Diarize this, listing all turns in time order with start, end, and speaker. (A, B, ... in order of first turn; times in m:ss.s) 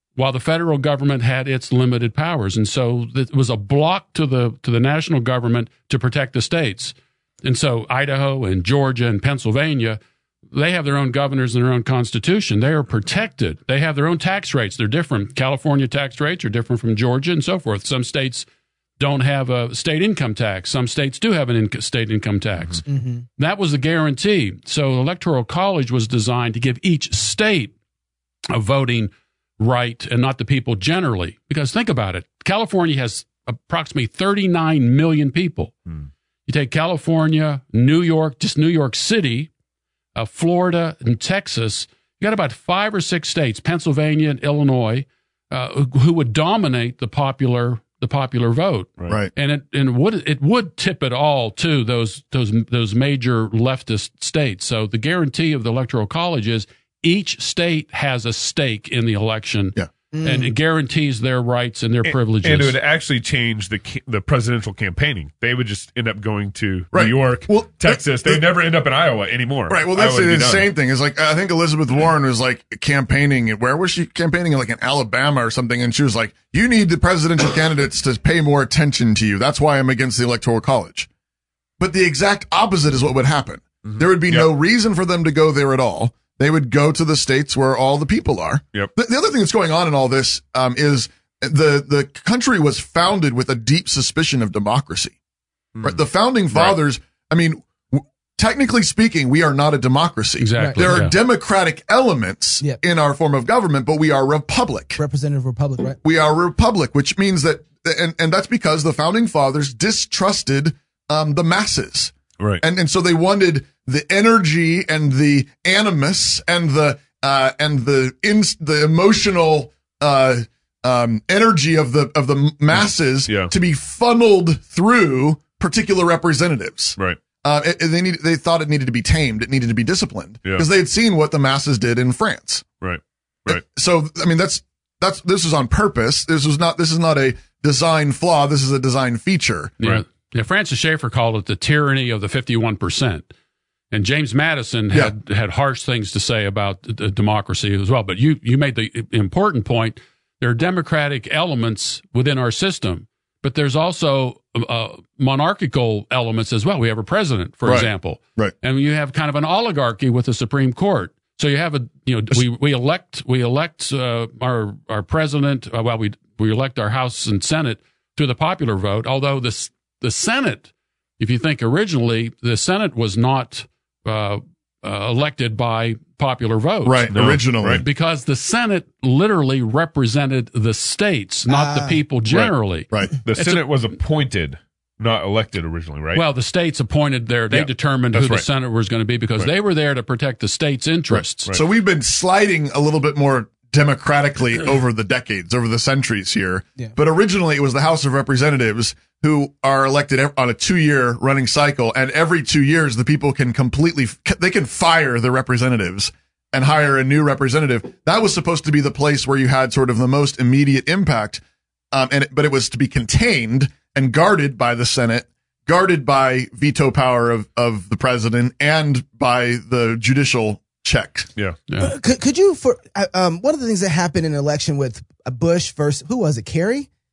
0:00.2-0:10.0 A
0:10.5-0:18.5 A
0:19.0-0:22.8 A
0:22.9-0:23.2 B
0:23.4-0:27.7 A
0:28.5-0:35.7 A
0:36.5-0:39.5 A
0:40.1-1:02.8 A
0:49.0-0:49.3 C
1:00.1-1:00.5 B
1:02.0-1:10.7 D
1:06.9-1:08.4 C
1:09.7-1:21.1 C
1:21.8-1:35.1 C
1:23.8-1:24.5 D
1:35.8-1:45.0 C
1:36.5-1:36.8 D
1:40.4-1:41.1 A
1:40.6-1:40.9 B
1:45.0-1:46.0 B
1:46.0-2:12.6 C
2:03.3-2:03.5 D
2:12.8-2:13.6 D
2:13.5-2:19.7 C
2:19.8-2:23.3 A
2:23.9-2:57.1 A
2:37.6-2:38.5 C
2:56.8-2:57.8 C
2:57.1-2:57.8 D
2:57.7-3:03.8 A
3:01.5-3:02.0 B
3:03.2-3:06.2 D
3:06.1-3:11.6 A
3:07.5-3:08.4 D
3:11.1-3:41.3 C
3:41.7-3:41.9 A
3:41.8-3:46.9 B